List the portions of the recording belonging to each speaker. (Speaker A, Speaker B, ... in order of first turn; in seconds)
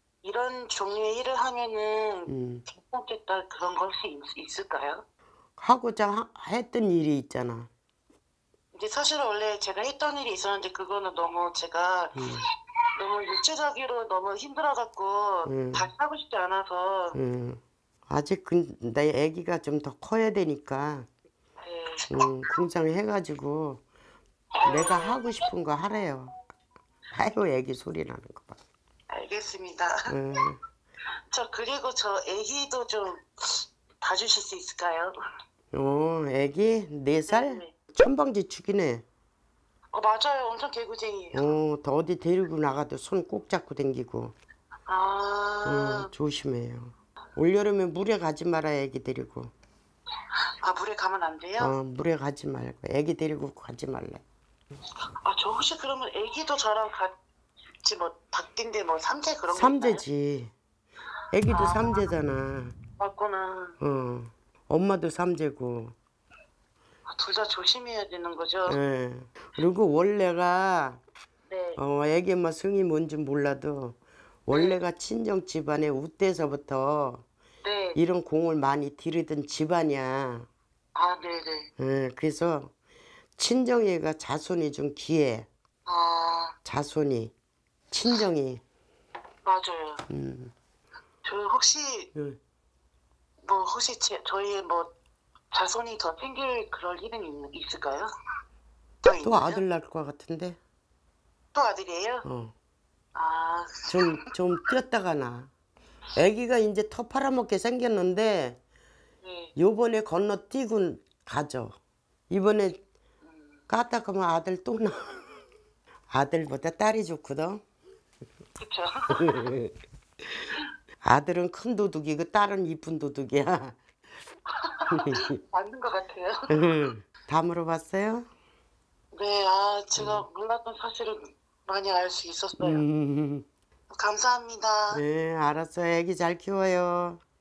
Speaker A: 0.2-5.0, 8.7-12.3, 12.9-17.2, 21.6-22.3, 24.6-25.3, 29.1-30.1, 31.3-35.1, 37.3-37.7, 39.9-41.6, 44.9-46.1, 50.6-51.7, 55.2-57.1, 57.8-60.0, 61.5-62.1, 63.0-63.8, 67.1-68.8, 71.5-71.8, 74.5-74.8, 77.6-78.0, 80.9-81.7, 85.8-86.5, 89.4-90.0, 91.2-92.1, 93.4-94.9, 95.5-98.1, 99.0-99.6, 101.5-102.2, 103.1-104.3, 109.2-109.5, 113.2-113.6, 118.6-119.5, 124.5-126.7, 129.1-132.8, 133.9-135.0
Speaker B: 2.3-2.6, 5.6-7.7, 12.1-12.4, 15.4-15.9, 17.1-21.1, 22.1-23.8, 24.6-26.4, 27.1-28.6, 30.1-30.6, 35.7-39.0, 41.3-44.3, 45.6-49.5, 51.6-54.2, 59.5-60.5, 61.3-62.8, 63.8-65.9, 68.7-71.0, 71.8-77.2, 77.9-80.5, 81.8-82.7, 83.4-85.5, 86.6-87.3, 87.9-88.6, 90.1-90.5, 99.2-100.6, 102.2-102.5, 103.9-105.5, 106.2-108.6, 109.5-111.8, 112.3-112.8, 113.7-115.4, 116.1-117.6, 119.1-119.7, 121.0-123.8, 124.9-125.3, 126.5-128.3, 130.0-130.2, 132.6-133.4, 134.9-137.2